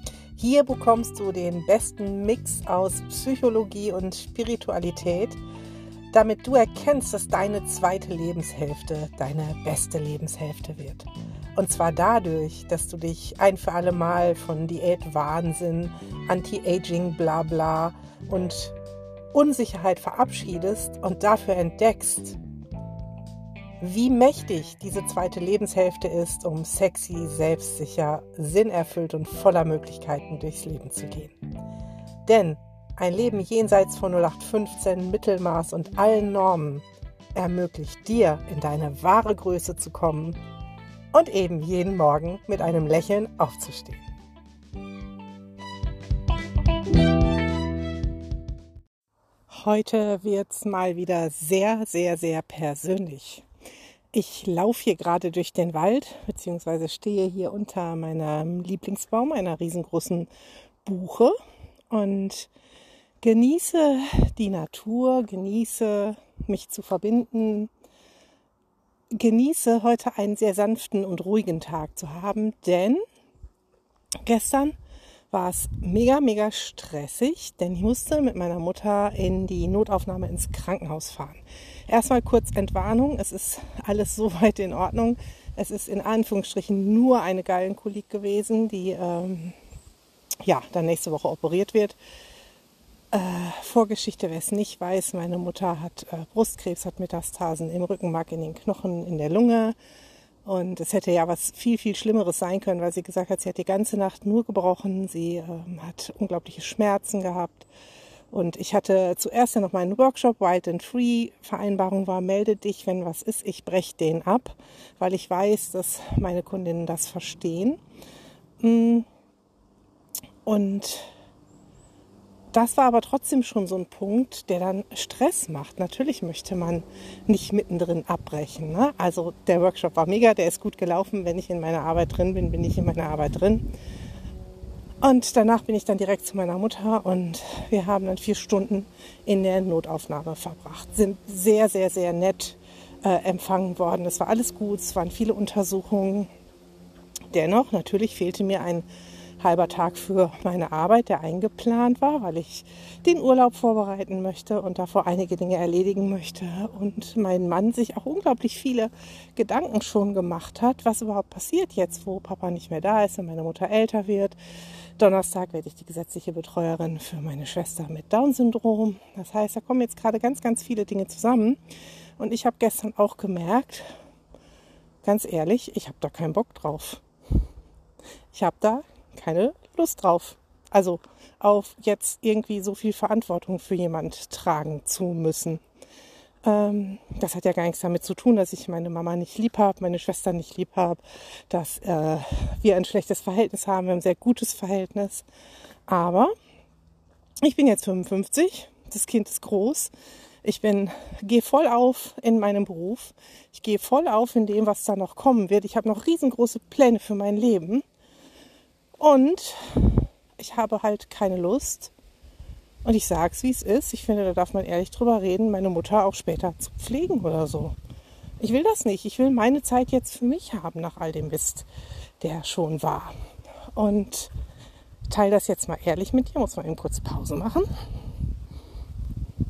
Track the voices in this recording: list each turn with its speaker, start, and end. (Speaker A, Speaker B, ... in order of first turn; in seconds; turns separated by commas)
Speaker A: 0.4-5.4, Speaker A: 6.1-18.8, Speaker A: 19.3-22.4, Speaker A: 23.8-31.4, Speaker A: 32.2-40.4, Speaker A: 41.1-44.1, Speaker A: 49.5-53.5, Speaker A: 54.1-60.3, Speaker A: 60.9-61.4, Speaker A: 61.9-62.5, Speaker A: 63.2-67.7, Speaker A: 69.1-73.0, Speaker A: 74.2-74.8, Speaker A: 75.3-89.6, Speaker A: 90.5-92.0, Speaker A: 93.1-99.8, Speaker A: 100.5-107.7, Speaker A: 108.3-117.8, Speaker A: 118.6-119.1, Speaker A: 120.5-121.1, Speaker A: 122.5-133.7, Speaker A: 135.0-146.3, Speaker A: 147.3-148.9, Speaker A: 149.4-164.4, Speaker A: 165.0-171.6, Speaker A: 172.2-173.9, Speaker A: 175.0-177.0, Speaker A: 178.3-185.6, Speaker A: 186.4-195.3, Speaker A: 195.9-196.3, Speaker A: 197.4-199.9, Speaker A: 200.4-207.8, Speaker A: 209.0-211.9, Speaker A: 212.8-217.8, Speaker A: 218.4-221.7, Speaker A: 222.2-223.1, Speaker A: 223.8-224.3, Speaker A: 225.1-227.7